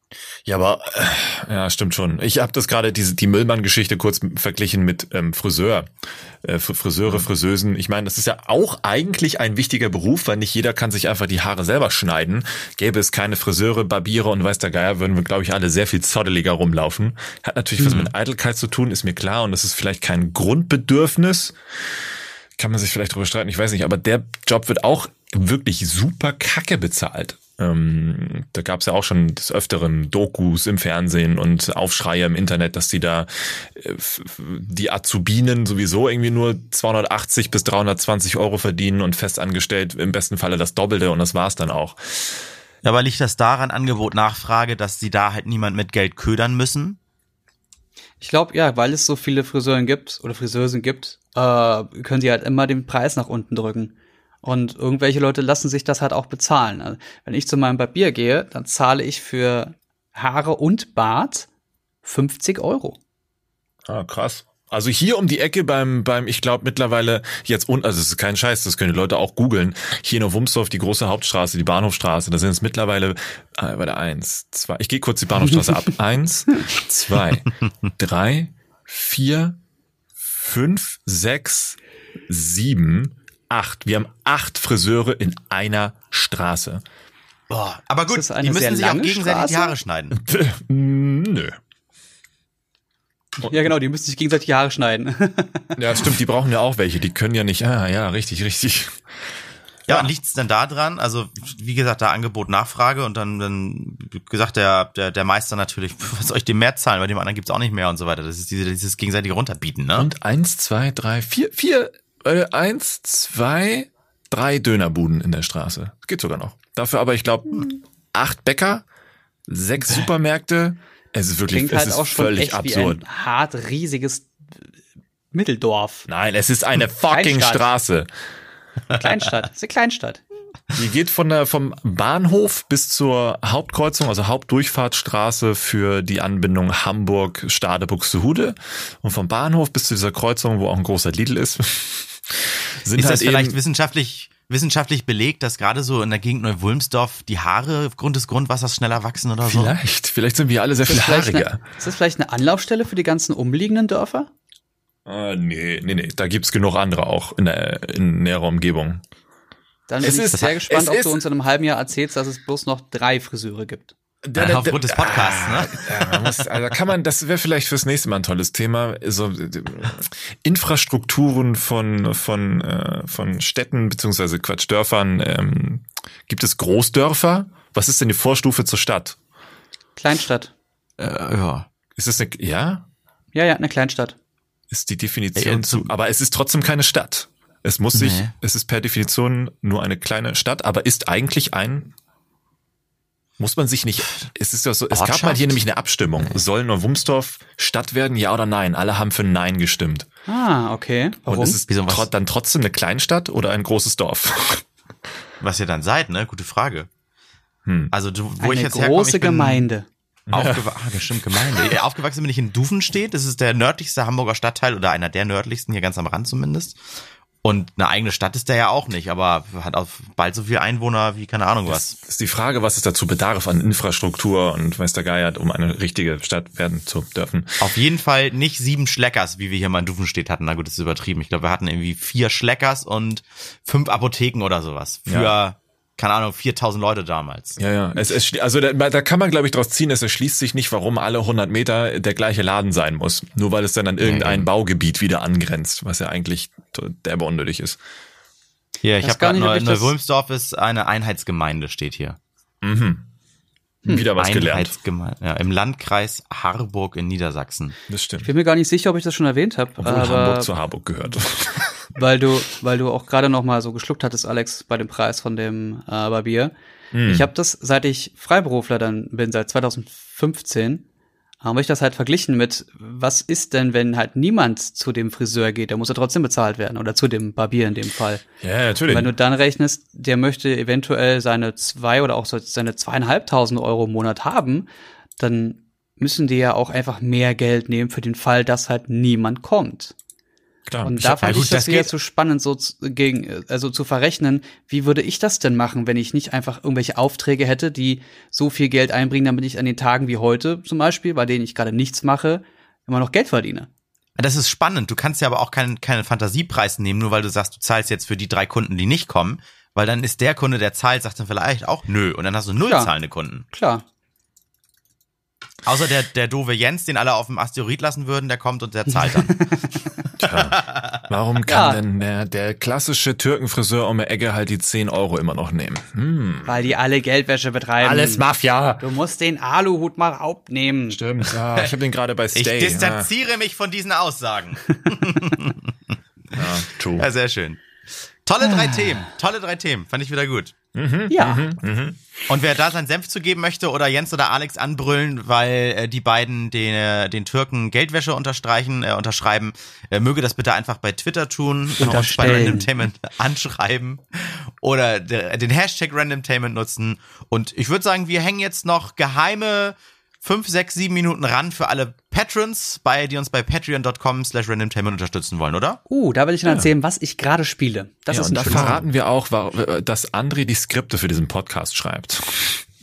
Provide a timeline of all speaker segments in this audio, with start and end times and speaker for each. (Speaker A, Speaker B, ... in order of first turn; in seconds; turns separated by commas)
Speaker A: 0.4-5.9, Speaker A: 6.4-21.5, Speaker B: 17.8-18.1, Speaker A: 22.6-42.4, Speaker B: 42.8-47.0, Speaker C: 48.2-61.5, Speaker C: 62.0-63.0, Speaker A: 63.9-79.6, Speaker A: 80.2-86.8, Speaker B: 87.5-90.2, Speaker C: 88.1-89.8, Speaker A: 90.1-91.5, Speaker C: 93.4-96.0, Speaker A: 95.8-99.2, Speaker B: 99.9-110.1, Speaker A: 110.0-118.8, Speaker A: 119.5-123.0, Speaker C: 121.5-124.3, Speaker C: 125.3-126.1, Speaker A: 126.1-128.1, Speaker C: 127.1-127.7, Speaker C: 128.9-130.2, Speaker A: 130.7-143.6, Speaker B: 142.9-149.7, Speaker A: 149.4-151.6, Speaker C: 150.8-154.3, Speaker A: 155.1-159.0, Speaker C: 159.9-163.9, Speaker A: 160.0-161.2, Speaker A: 164.2-179.2, Speaker B: 164.3-166.2, Speaker C: 179.9-180.5, Speaker B: 181.0-181.7, Speaker A: 181.9-182.9, Speaker C: 183.3-184.2, Speaker A: 184.7-191.9, Speaker B: 185.3-185.9, Speaker B: 187.9-188.3, Speaker A: 193.4-200.1, Speaker B: 194.9-195.6, Speaker C: 200.3-201.6, Speaker A: 201.2-204.7, Speaker B: 201.7-202.1, Speaker B: 205.4-206.9, Speaker A: 207.7-207.9, Speaker B: 207.9-209.7, Speaker C: 208.4-209.8, Speaker A: 210.3-210.7, Speaker B: 210.3-216.8, Speaker A: 211.3-211.8, Speaker B: 217.4-222.0, Speaker A: 221.7-227.7, Speaker B: 227.6-237.6, Speaker A: 235.1-235.3, Speaker A: 237.6-247.8, Speaker B: 244.0-244.5, Speaker B: 248.8-252.2, Speaker C: 249.0-249.9, Speaker A: 252.6-253.1, Speaker A: 253.8-254.7, Speaker B: 253.9-257.8, Speaker A: 257.9-258.3, Speaker C: 258.2-260.5, Speaker A: 259.8-261.8, Speaker C: 261.9-266.5, Speaker A: 266.9-267.3, Speaker C: 267.1-270.8, Speaker C: 271.4-278.2, Speaker A: 278.4-279.1, Speaker C: 278.9-284.7, Speaker C: 285.2-289.9, Speaker A: 290.7-291.5, Speaker C: 290.8-303.7, Speaker B: 291.2-291.9, Speaker B: 304.2-313.4, Speaker C: 312.6-312.9, Speaker C: 313.5-313.8, Speaker B: 315.6-319.5, Speaker C: 319.0-320.0, Speaker B: 320.1-321.0, Speaker A: 320.2-326.7, Speaker C: 321.5-321.8, Speaker C: 326.4-328.2, Speaker A: 327.8-328.8, Speaker C: 328.8-331.0, Speaker A: 330.9-333.1, Speaker B: 332.3-335.7, Speaker B: 336.3-337.6, Speaker A: 336.3-337.1, Speaker B: 338.2-340.5, Speaker C: 338.4-339.0, Speaker A: 340.7-342.2, Speaker C: 341.1-341.5, Speaker B: 342.3-365.8, Speaker C: 351.8-352.7, Speaker C: 365.9-368.8, Speaker A: 368.1-372.6, Speaker B: 368.5-368.8